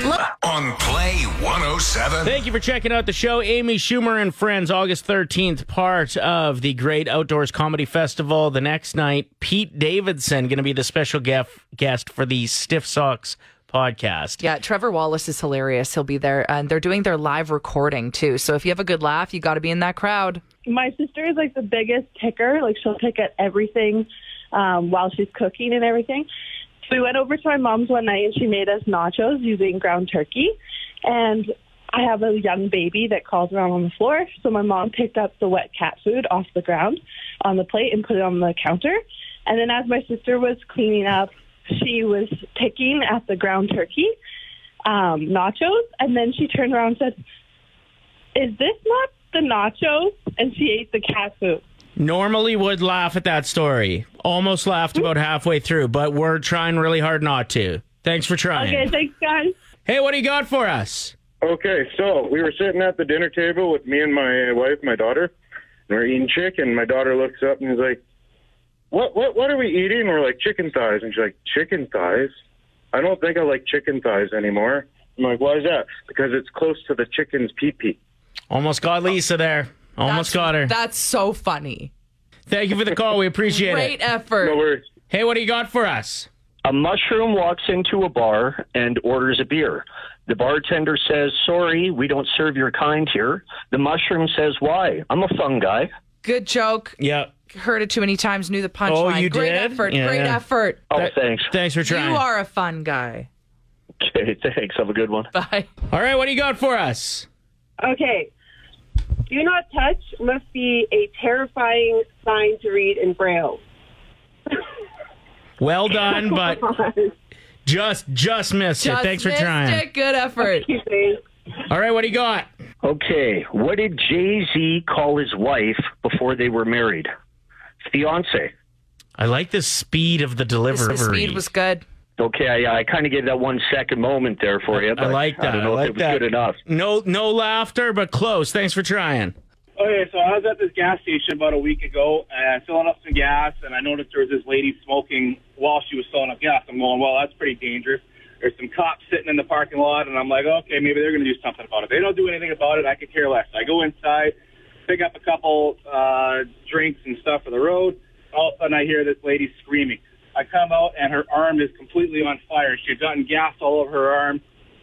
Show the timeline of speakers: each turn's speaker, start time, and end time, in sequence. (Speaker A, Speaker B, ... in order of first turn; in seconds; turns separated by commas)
Speaker A: 0.3-2.4, Speaker B: 2.2-14.4, Speaker C: 14.4-20.4, Speaker D: 20.7-26.3, Speaker D: 26.9-44.1, Speaker D: 44.9-47.2, Speaker D: 48.4-51.6, Speaker B: 52.0-58.9, Speaker D: 58.5-59.5, Speaker B: 59.9-61.1, Speaker E: 61.4-65.3, Speaker E: 65.9-68.0, Speaker E: 68.9-72.3, Speaker E: 72.9-78.0, Speaker B: 78.5-80.7, Speaker C: 80.0-81.9, Speaker B: 82.5-84.0, Speaker C: 83.5-84.6, Speaker E: 84.4-84.9, Speaker B: 85.1-86.3, Speaker F: 86.7-95.9, Speaker C: 96.2-97.0, Speaker B: 97.0-97.3, Speaker C: 97.5-101.1, Speaker B: 98.9-100.4, Speaker F: 100.9-101.5, Speaker B: 101.5-102.2, Speaker C: 101.8-103.3, Speaker F: 104.0-105.3, Speaker C: 105.3-105.7, Speaker B: 105.9-107.3, Speaker G: 107.8-108.3, Speaker G: 109.3-113.6, Speaker B: 115.6-116.6, Speaker G: 116.4-117.1, Speaker B: 117.7-119.8, Speaker C: 118.8-120.7, Speaker G: 120.5-121.2, Speaker B: 121.7-122.5, Speaker F: 122.8-127.1, Speaker F: 127.8-128.5, Speaker B: 129.2-131.4, Speaker C: 130.7-131.8, Speaker F: 132.2-136.6, Speaker B: 134.7-139.3, Speaker H: 139.8-154.3, Speaker H: 154.9-164.4